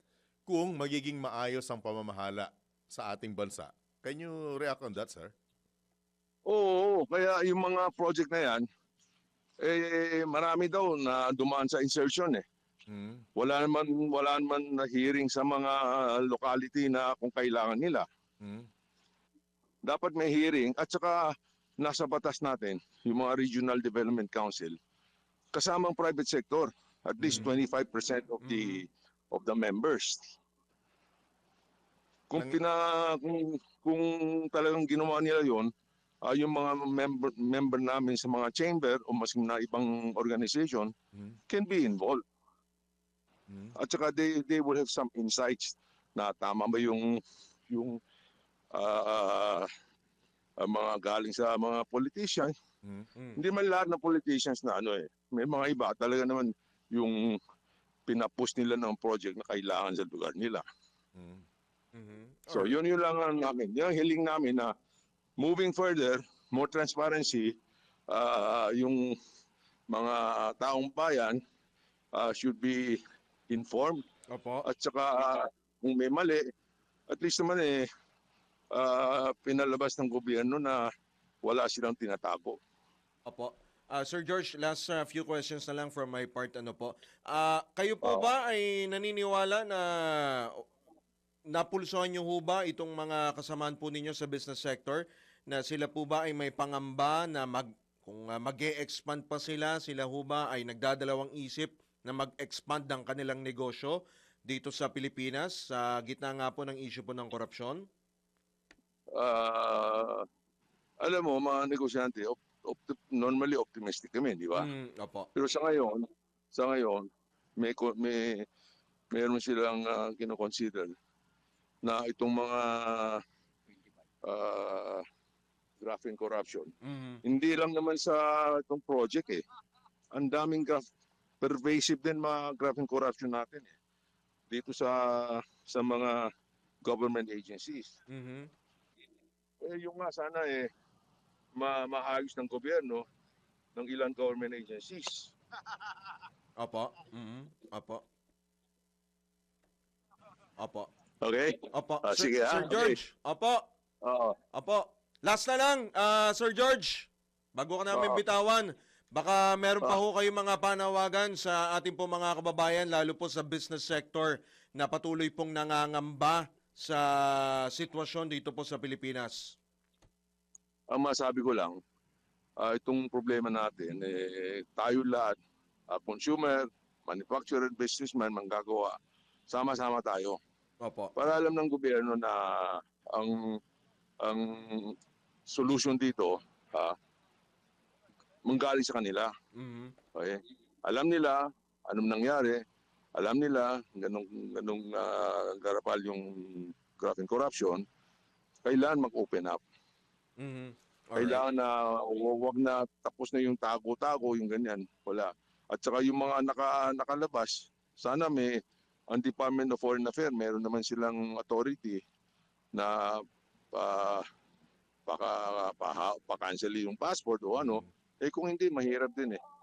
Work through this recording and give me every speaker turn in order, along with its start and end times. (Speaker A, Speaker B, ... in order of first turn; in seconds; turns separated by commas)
Speaker A: 0.5-5.3, Speaker B: 6.5-8.6, Speaker B: 9.6-12.4, Speaker A: 12.9-13.2, Speaker B: 13.3-18.0, Speaker A: 18.4-18.7, Speaker B: 19.8-24.8, Speaker B: 25.5-30.4, Speaker C: 27.2-27.5, Speaker C: 28.4-28.8, Speaker B: 32.3-35.7, Speaker B: 36.2-40.9, Speaker B: 41.5-42.2, Speaker A: 43.5-43.7, Speaker B: 43.7-48.0, Speaker B: 48.7-49.7, Speaker B: 50.6-52.5, Speaker B: 53.4-57.4, Speaker B: 58.1-60.6, Speaker A: 61.1-61.4, Speaker C: 61.9-62.8, Speaker B: 62.5-64.7, Speaker B: 65.4-67.5, Speaker B: 68.1-69.1, Speaker B: 69.9-71.4, Speaker B: 72.1-74.0, Speaker C: 74.3-74.6, Speaker B: 74.6-76.4, Speaker B: 77.1-77.8, Speaker B: 78.7-80.8, Speaker B: 81.4-82.6, Speaker C: 83.2-90.6, Speaker B: 88.0-88.3, Speaker C: 91.5-107.8, Speaker B: 109.1-110.2, Speaker B: 111.0-114.7, Speaker C: 114.5-115.3, Speaker B: 115.3-118.4, Speaker B: 119.1-120.9, Speaker B: 121.8-123.2, Speaker B: 124.2-125.0, Speaker B: 125.8-126.7, Speaker C: 126.8-127.2, Speaker B: 127.2-129.4, Speaker B: 130.1-130.8, Speaker B: 131.4-133.7, Speaker B: 134.5-136.3, Speaker B: 136.8-137.9, Speaker C: 138.1-138.5, Speaker B: 139.6-140.7, Speaker B: 141.5-143.0, Speaker B: 143.8-145.3, Speaker C: 146.6-148.0, Speaker C: 150.6-150.9, Speaker B: 151.2-153.0, Speaker C: 151.7-153.6, Speaker B: 154.0-154.3, Speaker C: 154.5-169.6, Speaker B: 157.9-158.2, Speaker B: 170.9-171.8, Speaker B: 172.6-175.3, Speaker B: 175.9-178.9, Speaker B: 179.5-180.4, Speaker C: 180.8-181.1, Speaker B: 181.2-183.6, Speaker B: 184.2-184.9, Speaker B: 185.5-186.9, Speaker B: 188.4-189.3, Speaker C: 189.5-189.9, Speaker B: 190.1-192.6, Speaker B: 193.1-197.8, Speaker B: 198.6-199.6, Speaker C: 200.4-201.4, Speaker B: 201.2-208.6, Speaker B: 209.1-212.0, Speaker B: 212.7-213.2, Speaker B: 213.7-214.2, Speaker B: 215.1-219.4, Speaker A: 217.5-217.9